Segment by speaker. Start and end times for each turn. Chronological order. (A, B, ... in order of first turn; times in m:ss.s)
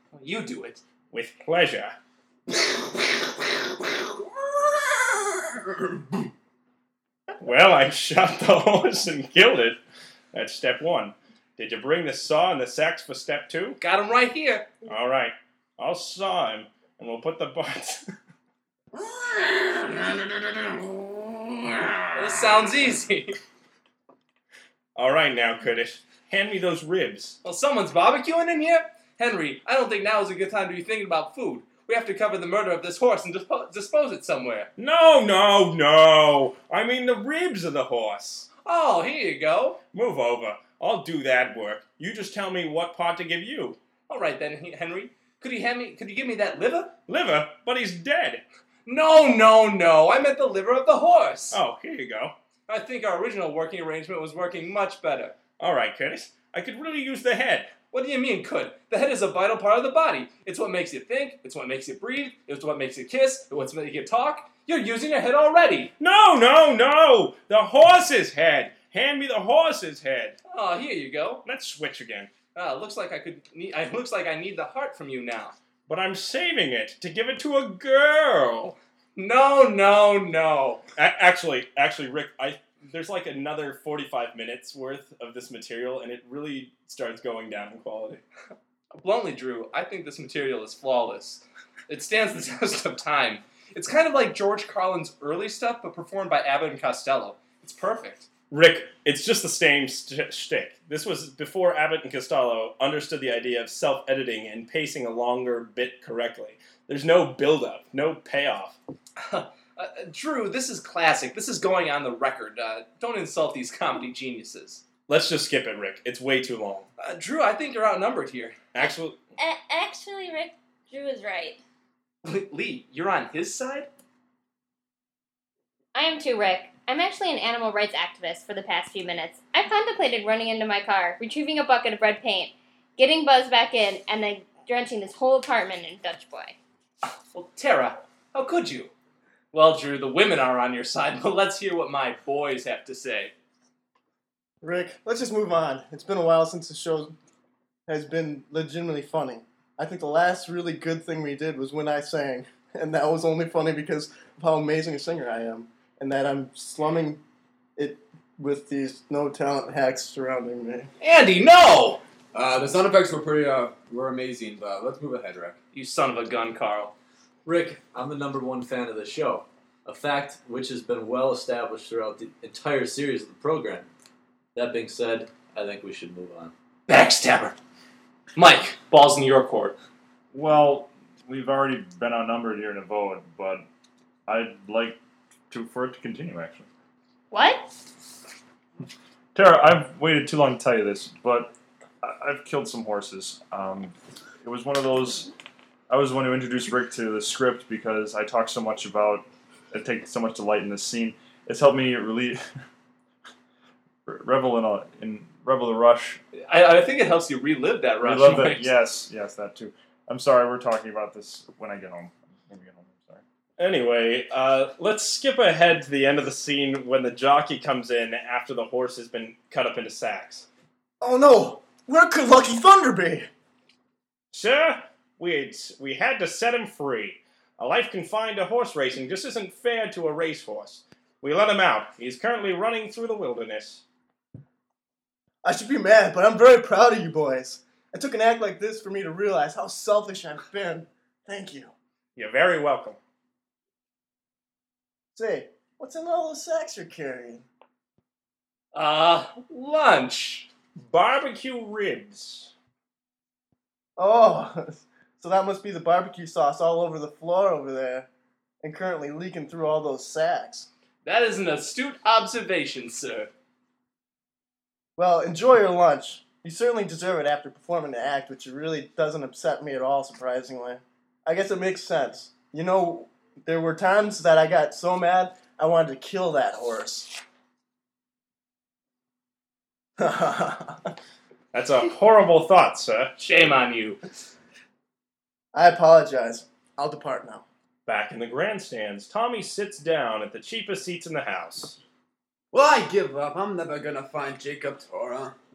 0:00.1-0:00.8 A
0:01.1-0:01.9 B
0:03.0-0:06.2 C
0:07.4-0:09.8 B
0:10.3-0:13.8 B
0:13.8-0:14.7 A
0:14.8-0:18.0 B
0:18.9-0:22.2 C
0:22.2-0:23.4 A
0:25.0-0:27.4 B
0:27.4-0:34.7 A
0:34.8-0:38.5 B
0:38.6-0:39.8 A
0:39.9-0:43.8 B
0:44.1-0:46.9 A
0:47.1-0:48.4 B
0:48.9-0:51.6 A
0:51.5-0:52.3 B
0:52.7-0:55.4 A
0:55.6-0:57.7 B
0:57.9-1:05.9 A
1:06.0-1:10.4 B
1:10.5-1:11.4 A
1:11.4-1:12.3 B
1:12.6-1:15.6 A
1:15.9-1:18.8 B
1:19.2-1:20.8 A
1:21.0-1:28.2 B
1:29.0-1:38.3 A
1:38.5-1:48.8 B
1:49.2-1:54.8 A
1:55.1-1:56.9 B
1:57.0-1:58.6 A
1:58.7-1:59.2 B
1:59.4-2:01.6 D
2:02.2-2:03.9 A
2:05.9-2:16.6 E
2:17.3-2:18.9 A
2:19.5-2:23.3 A
2:24.6-2:27.2 F
2:27.9-2:37.2 F
2:37.8-2:40.9 F
2:41.0-2:42.0 A
2:42.3-2:45.6 C
2:45.7-2:46.9 A
2:47.5-2:53.9 G
2:54.6-2:56.5 G
2:56.9-2:57.6 A
2:58.4-2:59.8 A
3:00.3-3:03.6 H
3:04.3-3:05.0 H
3:05.5-3:06.7 H
3:07.3-3:07.7 E
3:09.4-3:15.3 H
3:15.9-3:22.4 H
3:24.1-3:26.2 H
3:26.4-3:28.7 A
3:28.0-3:33.2 H
3:33.6-3:40.5 B
3:41.0-3:43.3 F
3:44.3-3:53.8 B
3:55.4-4:01.7 F
4:02.2-4:03.0 B
4:05.2-4:07.4 F
4:08.7-4:10.5 A
4:10.8-4:12.5 B
4:14.0-4:18.1 F
4:18.6-4:20.7 F
4:21.0-4:23.3 A
4:25.0-4:37.2 F
4:40.0-4:40.9 F
4:41.5-4:43.1 B
4:43.2-4:44.0 A
4:45.5-4:47.4 F
4:47.9-4:51.8 B
4:52.5-4:55.4 C